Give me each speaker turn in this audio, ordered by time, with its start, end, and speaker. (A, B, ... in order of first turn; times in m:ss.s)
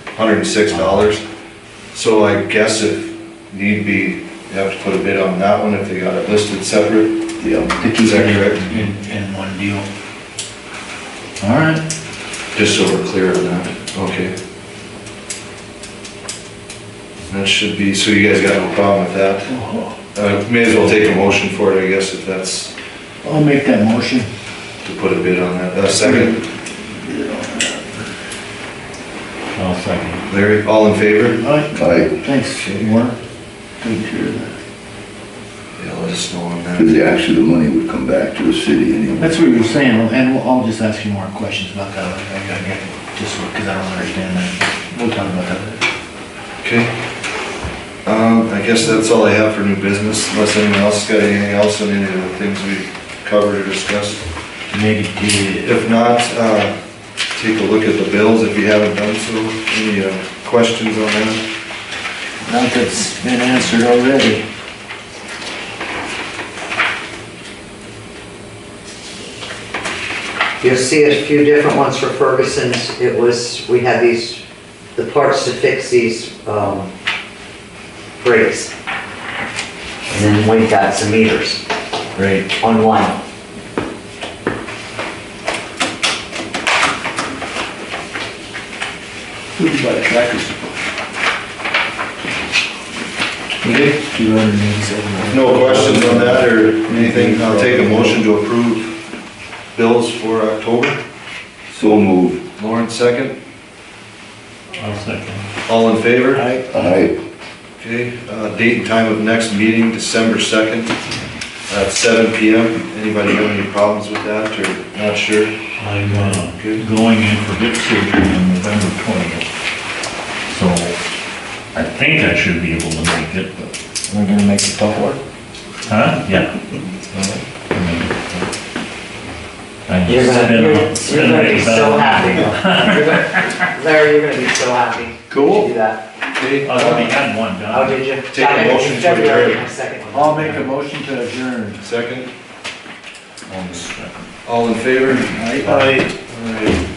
0:00.1-0:01.2 A
0:01.9-0:07.2 A
0:07.4-0:07.8 B
0:07.8-0:09.9 C
0:08.0-0:08.9 A
0:11.4-0:11.8 C
0:12.6-0:14.4 A
0:17.3-0:19.5 A
0:19.5-0:20.0 C
0:20.1-0:22.7 A
0:23.2-0:24.3 C
0:24.8-0:26.4 A
0:25.8-0:28.1 C
0:29.5-0:30.3 D
0:30.3-0:31.4 A
0:31.3-0:33.2 C
0:31.7-0:32.2 B
0:33.8-0:34.6 C
0:35.8-0:37.0 A
0:36.8-0:39.4 B
0:39.2-0:45.8 C
0:46.6-0:46.9 A
0:48.0-0:54.3 A
0:54.7-0:55.7 C
0:55.6-0:56.8 A
0:57.3-1:01.4 A
1:02.5-1:04.4 C
1:10.6-1:14.4 E
1:15.0-1:16.9 E
1:18.2-1:18.7 E
1:20.1-1:21.6 E
1:22.2-1:22.5 C
1:22.6-1:23.2 E
1:29.6-1:30.8 C
1:33.6-1:38.2 C
1:35.3-1:39.0 A
1:39.7-1:41.0 A
1:41.7-1:42.4 B
1:42.6-1:43.4 A
1:44.8-1:45.4 D
1:45.7-1:46.5 A
1:46.3-1:47.1 C
1:46.7-1:47.2 B
1:47.8-1:51.0 A
1:51.7-1:56.8 A
1:55.8-1:59.5 D
2:00.5-2:01.0 D
2:01.7-2:03.7 D
2:04.1-2:05.2 C
2:05.9-2:06.5 D
2:07.7-2:08.2 D
2:09.9-2:13.6 D
2:10.1-2:16.0 E
2:15.3-2:15.7 C
2:16.3-2:16.9 A
2:16.6-2:18.0 D
2:16.9-2:17.2 E
2:17.7-2:20.7 E
2:18.3-2:19.7 A
2:20.1-2:21.8 C
2:21.8-2:22.3 A
2:23.5-2:24.3 D
2:24.5-2:25.6 A
2:25.3-2:26.0 C
2:25.6-2:26.1 D
2:26.2-2:26.8 A